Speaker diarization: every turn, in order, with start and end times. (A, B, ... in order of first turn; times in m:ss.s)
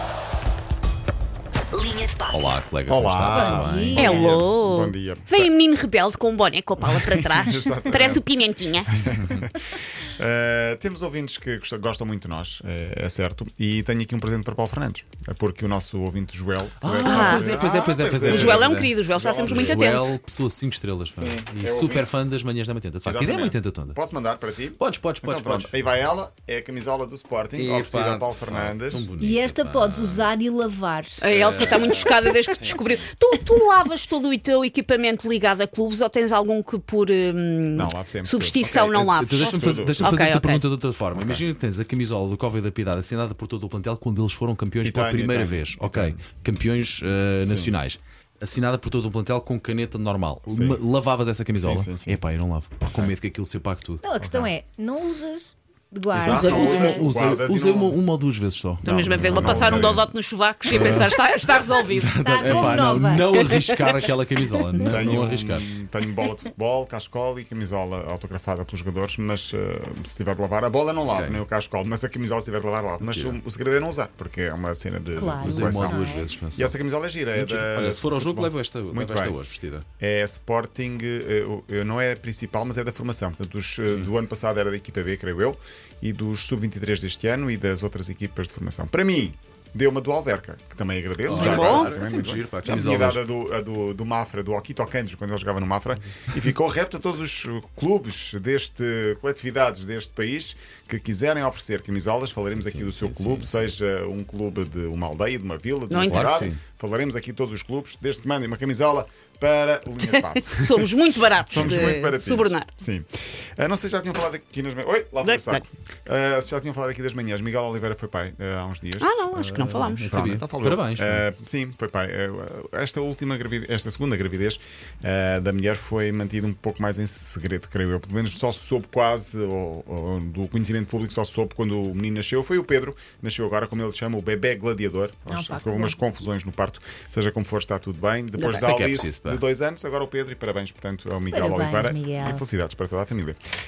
0:02.3-0:04.4 A
0:02.9-0:05.5 B
0:03.3-0:04.4 C
0:04.0-0:08.9 D
0:06.8-0:08.2 B
0:08.9-0:19.9 B
0:16.8-0:18.9 A
0:17.0-0:17.5 D
0:18.2-0:20.1 D
0:19.5-0:24.0 A
0:21.2-0:22.1 B
0:23.0-0:29.1 B
0:24.8-0:25.7 A
0:27.6-0:30.3 A
0:29.2-0:32.3 C
0:31.2-0:40.6 D
0:31.3-0:33.1 B
0:37.8-0:40.2 B
0:39.2-0:54.0 A
0:41.1-0:41.4 B
0:44.8-0:46.2 B
0:47.4-0:47.8 B
0:50.5-0:50.8 B
0:51.6-0:52.2 B
0:54.0-0:57.2 C
0:54.2-0:54.5 B
0:56.1-1:00.1 A
0:56.2-0:58.0 B
0:58.8-1:00.1 B
0:58.8-1:02.8 D
1:00.7-1:05.7 A
1:02.2-1:03.5 C
1:03.3-1:04.0 D
1:04.9-1:19.4 B
1:11.1-1:11.4 A
1:13.0-1:13.4 A
1:15.1-1:16.3 C
1:15.4-1:16.7 A
1:17.3-1:19.9 A
1:20.0-2:23.4 B
1:31.3-1:33.2 A
1:31.3-1:31.9 D
1:42.6-1:43.7 A
1:45.9-1:46.5 D
1:46.1-1:46.6 A
1:50.5-1:52.7 D
1:55.2-1:55.6 D
1:59.0-2:00.2 D
1:59.4-2:01.2 A
2:15.3-2:16.0 C
2:18.4-2:18.8 D
2:18.5-2:19.4 A
2:21.3-2:22.4 C